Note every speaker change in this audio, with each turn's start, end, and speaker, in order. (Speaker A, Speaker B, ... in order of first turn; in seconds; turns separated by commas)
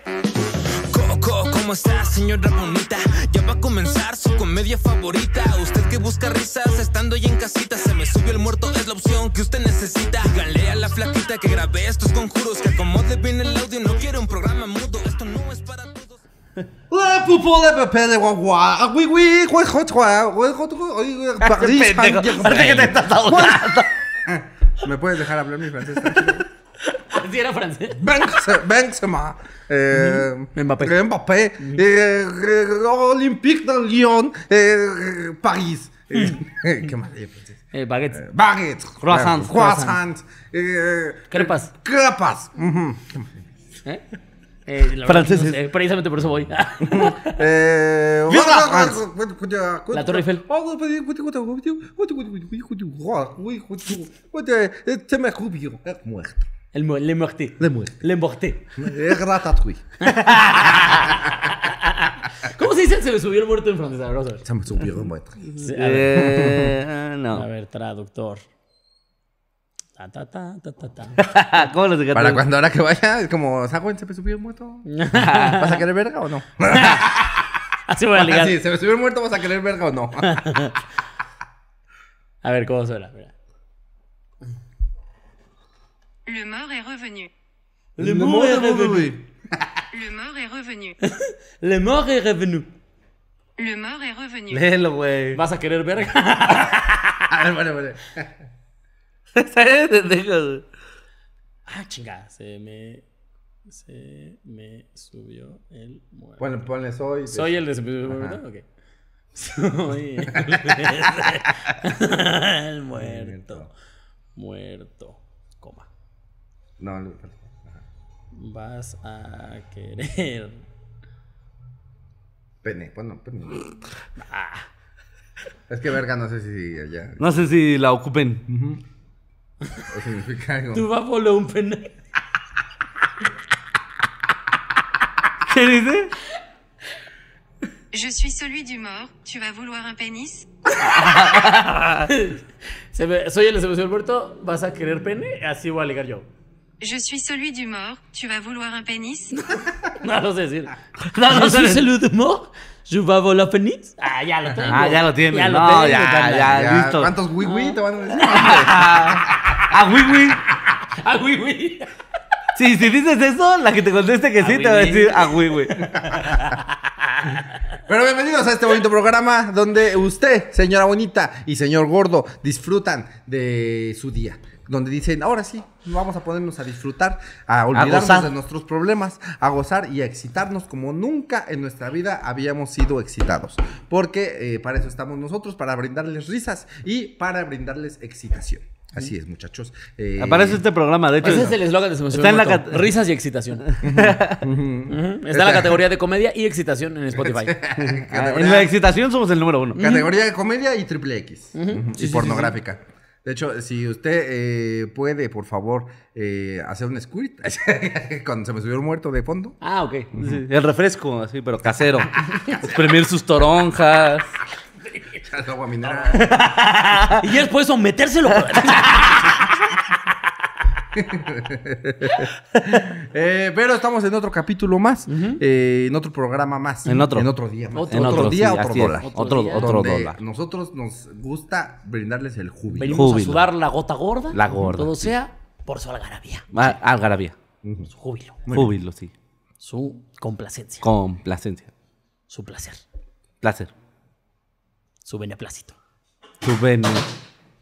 Speaker A: 0.6-16.2, Speaker B: 16.9-26.4, Speaker C: 21.4-23.9, Speaker D: 27.0-28.0, Speaker B: 28.0-37.6, Speaker D: 30.5-30.9, Speaker D: 37.7-38.2, Speaker B: 38.1-43.4, Speaker C: 39.0-40.0, Speaker D: 41.3-41.7, Speaker D: 44.6-47.4, Speaker C: 45.0-45.6, Speaker B: 46.8-56.5, Speaker C: 48.3-49.0, Speaker D: 49.9-50.4, Speaker D: 56.7-58.6, Speaker C: 57.6-57.9, Speaker B: 58.8-59.8, Speaker D: 60.0-64.4, Speaker B: 60.8-61.1, Speaker B: 64.4-65.4, Speaker C: 65.5-67.4, Speaker D: 65.6-66.1, Speaker B: 66.2-66.8, Speaker D: 67.3-68.4, Speaker D: 70.0-71.2, Speaker C: 71.2-72.4, Speaker B: 72.1-74.9, Speaker D: 74.8-75.8, Speaker C: 75.1-75.8, Speaker B: 75.5-77.5, Speaker D: 76.7-77.1, Speaker D: 77.9-78.5, Speaker B: 78.2-80.4, Speaker D: 80.2-80.8, Speaker D: 82.4-83.3, Speaker E: 86.2-87.3, Speaker D: 88.0-89.1, Speaker C: 88.0-89.2, Speaker E: 89.9-91.0, Speaker D: 91.1-92.7, Speaker E: 93.6-94.6, Speaker C: 94.5-95.4, Speaker D: 95.3-97.2, Speaker B: 97.3-98.3, Speaker C: 99.3-100.6, Speaker D: 101.7-103.0, Speaker D: 103.7-106.4, Speaker B: 106.4-108.4, Speaker D: 107.3-108.6, Speaker D: 109.3-113.7, Speaker B: 110.2-111.2, Speaker B: 112.9-113.7, Speaker D: 114.3-115.8, Speaker B: 116.8-117.8, Speaker D: 118.3-120.6, Speaker B: 122.6-123.7, Speaker D: 124.2-124.6, Speaker B: 125.7-127.2, Speaker C: 127.2-128.4, Speaker B: 128.5-128.8, Speaker B: 129.9-130.9, Speaker D: 130.7-131.9, Speaker C: 135.5-136.1, Speaker E: 137.9-140.5, Speaker C: 140.8-142.1, Speaker D: 140.8-142.4, Speaker D: 142.9-146.3, Speaker E: 146.8-149.4, Speaker D: 149.9-156.5, Speaker C: 151.1-151.9, Speaker C: 154.7-157.1, Speaker B: 156.5-159.6, Speaker D: 157.4-158.6, Speaker C: 158.3-160.4, Speaker D: 160.8-161.9, Speaker C: 162.6-165.9, Speaker D: 164.4-166.7, Speaker B: 165.8-166.5, Speaker B: 167.9-190.6, Speaker C: 177.7-178.3, Speaker C: 190.2-191.6, Speaker D: 191.2-193.7, Speaker B: 191.2-191.6, Speaker C: 192.1-192.9, Speaker C: 193.7-194.4, Speaker B: 193.8-195.8, Speaker D: 194.9-197.5, Speaker B: 197.2-198.7, Speaker C: 197.8-199.8, Speaker D: 199.7-200.1, Speaker B: 199.7-209.5, Speaker D: 201.5-202.5, Speaker D: 209.6-210.1, Speaker C: 210.2-214.3, Speaker B: 212.6-212.9, Speaker B: 215.2-216.3, Speaker C: 216.2-217.2, Speaker D: 216.8-219.4, Speaker B: 220.9-233.1, Speaker D: 225.1-225.4, Speaker C: 226.8-227.3, Speaker D: 227.7-229.7, Speaker C: 227.9-230.2, Speaker D: 232.7-236.5, Speaker C: 232.9-233.5, Speaker C: 234.3-235.1, Speaker C: 236.5-237.3, Speaker B: 237.6-237.9, Speaker D: 237.9-238.3, Speaker C: 238.5-239.1, Speaker D: 239.6-240.8, Speaker C: 240.8-241.7, Speaker D: 242.3-242.8, Speaker C: 243.4-243.7, Speaker D: 245.0-245.7, Speaker C: 246.4-247.1